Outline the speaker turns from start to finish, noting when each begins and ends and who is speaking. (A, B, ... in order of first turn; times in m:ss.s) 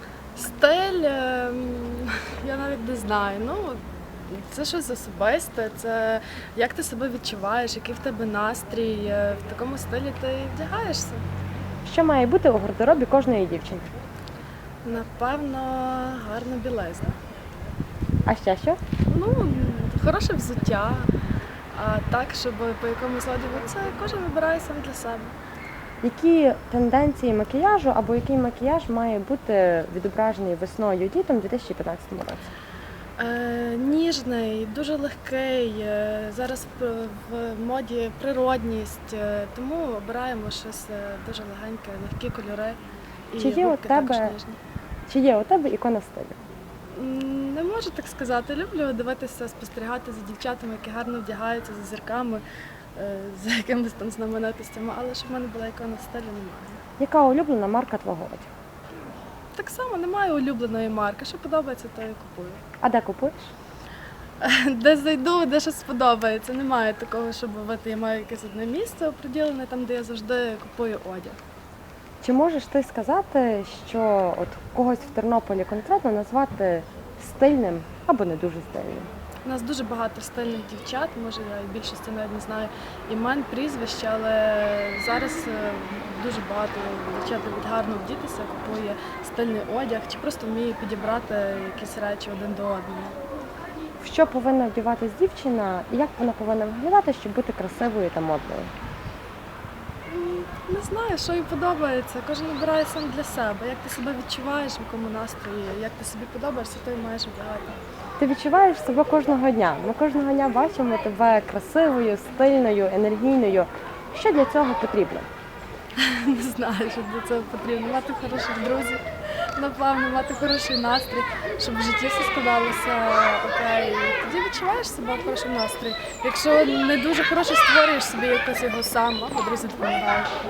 0:00.3-0:11.2 A
0:11.8-0:13.9 B
0:14.8-0:17.2 A
0:18.2-0:18.8 B
0:19.1-0:21.1 A
0:21.7-0:25.3 A
0:26.0-0:32.5 B
0:33.2-0:42.8 A
0:43.3-0:44.6 A
0:43.4-0:44.3 B
0:45.1-0:46.4 B
0:46.9-0:52.4 A
0:53.0-0:56.8 A
0:57.0-0:58.5 B
0:59.5-1:02.6 A
1:02.8-1:03.5 B
1:04.4-1:11.4 A
1:12.2-1:19.1 B
1:19.4-1:33.2 A
1:34.0-1:38.7 B
1:40.1-1:47.8 A
1:48.2-1:55.3 B
1:56.0-1:59.0 A
1:59.6-2:10.3 A